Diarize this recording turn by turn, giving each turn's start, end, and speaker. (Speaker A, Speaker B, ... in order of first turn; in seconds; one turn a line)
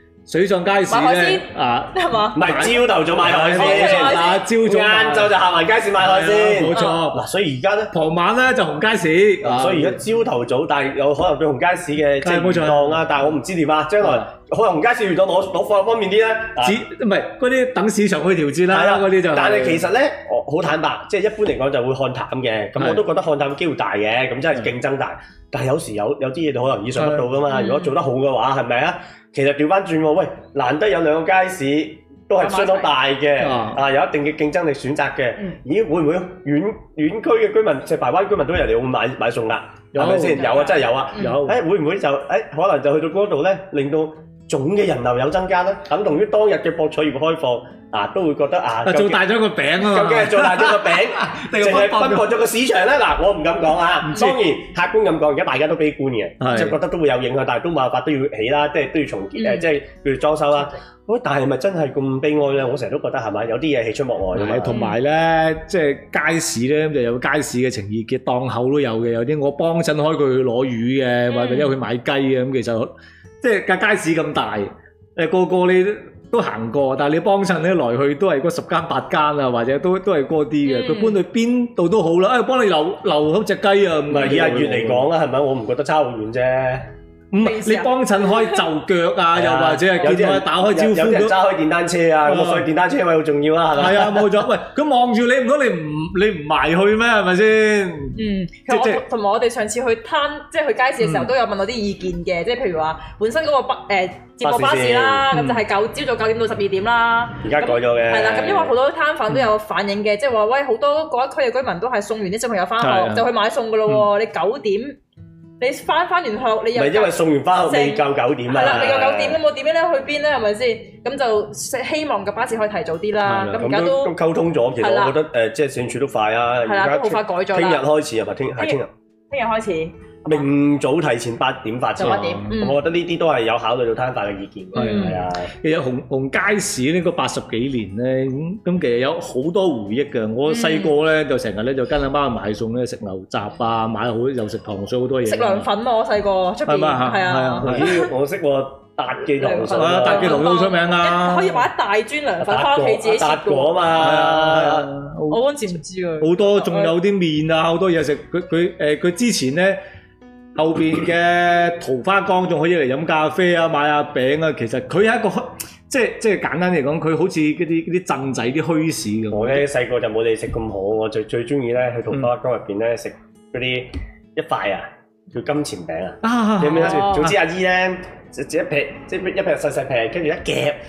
Speaker A: 0.3-5.3
Speaker B: 0.9-2.7
Speaker C: 2.4-7.9
Speaker B: 3.4-4.4
Speaker A: 6.0-7.2
Speaker B: 6.7-7.0
Speaker A: 7.9-10.0
Speaker C: 9.4-16.8
Speaker A: 12.2-13.0
Speaker A: 16.6-19.8
Speaker C: 18.7-49.2
Speaker A: 27.0-27.3
Speaker B: 27.5-27.9
Speaker B: 32.4-32.9
Speaker A: 33.4-33.8
Speaker A: 39.9-40.6
Speaker B: 40.3-41.4
Speaker A: 41.2-41.5
Speaker A: 48.9-52.3
Speaker C: 49.8-64.8
Speaker A: 54.0-54.4
Speaker A: 56.4-56.8
Speaker B: 59.4-59.7
Speaker A: 64.3-85.1
Speaker B: 64.7-65.0
Speaker B: 71.3-71.8
Speaker B: 80.7-81.2
Speaker C: 84.1-86.9
Speaker A: 87.3-91.4
Speaker B: 87.4-88.6
Speaker C: 89.3-94.4
Speaker A: 92.3-92.7
Speaker A: 93.8-99.0
Speaker B: 98.2-115.0
Speaker A: 101.0-101.3
Speaker C: 104.4-105.3
Speaker A: 105.3-105.6
Speaker C: 107.4-108.8
Speaker A: 112.8-113.3
Speaker B: 115.6-124.1
Speaker C: 116.8-119.4
Speaker A: 123.2-123.6
Speaker C: 123.6-128.9
Speaker B: 124.8-125.2
Speaker B: 126.7-127.8
Speaker B: 129.3-129.9
Speaker C: 130.2-135.5
Speaker B: 132.0-132.8
Speaker A: 132.0-132.5
Speaker B: 134.8-135.2
Speaker A: 134.8-145.7
Speaker B: 140.5-140.9
Speaker B: 145.2-148.1
Speaker A: 146.7-147.9
Speaker C: 147.6-150.4
Speaker B: 149.4-153.8
Speaker A: 149.7-151.7
Speaker C: 152.4-154.9
Speaker A: 154.0-155.4
Speaker B: 155.3-157.0
Speaker A: 156.2-159.8
Speaker A: 160.6-169.7
Speaker C: 169.3-180.8
Speaker A: 176.2-177.3
Speaker B: 176.8-177.3